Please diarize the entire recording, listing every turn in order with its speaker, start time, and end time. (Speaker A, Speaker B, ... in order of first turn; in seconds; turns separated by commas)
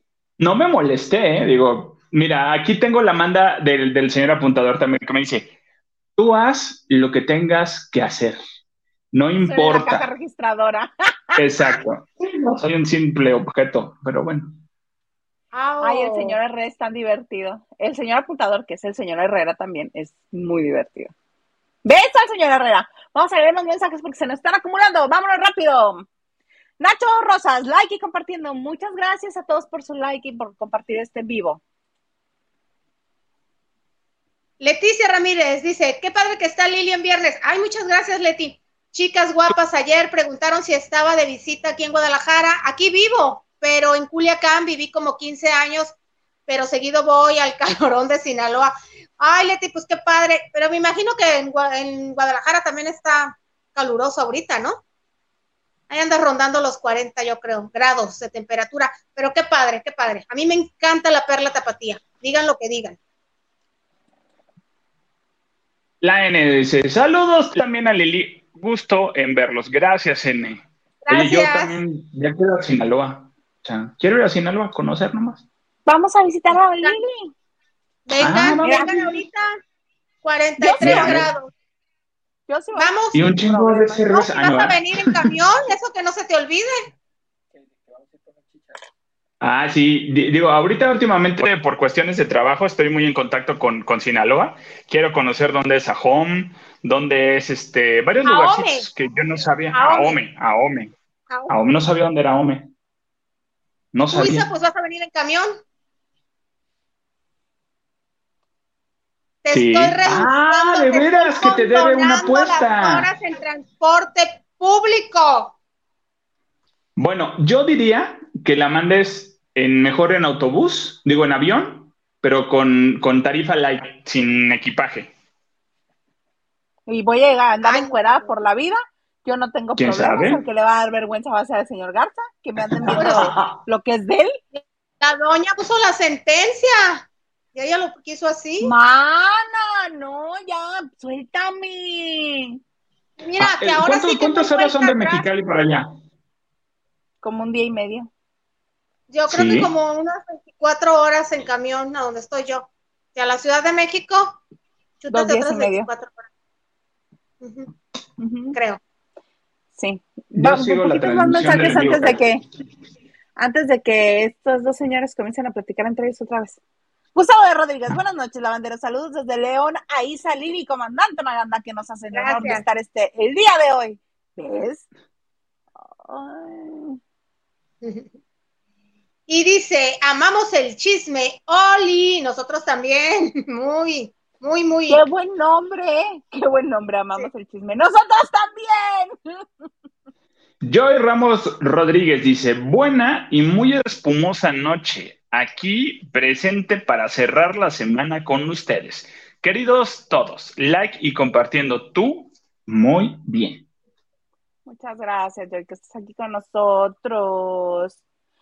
Speaker A: 0.4-5.5, Speaker A: 6.2-8.4, Speaker A: 9.1-10.1, Speaker B: 9.4-11.6, Speaker A: 11.3-14.6, Speaker C: 15.5-16.4, Speaker B: 15.8-21.1, Speaker B: 21.8-26.1, Speaker B: 26.8-31.6, Speaker C: 34.6-45.9, Speaker C: 46.5-54.8, Speaker C: 55.9-63.0, Speaker A: 66.0-75.4, Speaker C: 71.0-71.7, Speaker B: 75.8-77.3, Speaker C: 78.1-79.5, Speaker A: 78.2-78.9, Speaker B: 78.6-79.2, Speaker C: 80.2-81.5, Speaker B: 80.6-81.2, Speaker A: 80.8-81.3, Speaker B: 82.5-84.6, Speaker C: 82.7-83.2, Speaker A: 83.1-85.3, Speaker C: 84.1-86.7, Speaker A: 89.4-100.9, Speaker C: 98.2-98.9, Speaker C: 99.7-100.2, Speaker A: 101.5-102.7, Speaker A: 103.9-104.5, Speaker C: 104.1-105.5, Speaker C: 109.4-115.5, Speaker A: 109.5-113.1, Speaker A: 117.0-125.1, Speaker B: 126.9-134.3, Speaker C: 127.6-128.3, Speaker A: 129.8-130.4, Speaker A: 132.7-133.6, Speaker C: 132.9-133.4, Speaker C: 134.5-138.7, Speaker B: 138.6-142.6, Speaker C: 143.2-145.2, Speaker A: 143.4-145.9, Speaker B: 147.2-148.1, Speaker C: 149.1-154.4, Speaker A: 149.3-149.7, Speaker C: 155.0-156.2, Speaker B: 155.1-155.9, Speaker C: 157.4-157.7, Speaker B: 158.2-158.6, Speaker C: 158.5-158.8, Speaker B: 159.8-162.4, Speaker A: 160.3-162.2, Speaker B: 163.3-166.6, Speaker B: 167.1-174.8, Speaker C: 172.1-172.6, Speaker B: 176.0-177.0, Speaker C: 177.8-178.1, Speaker C: 179.3-185.0, Speaker B: 184.9-189.4, Speaker A: 190.6-203.7, Speaker B: 204.7-208.0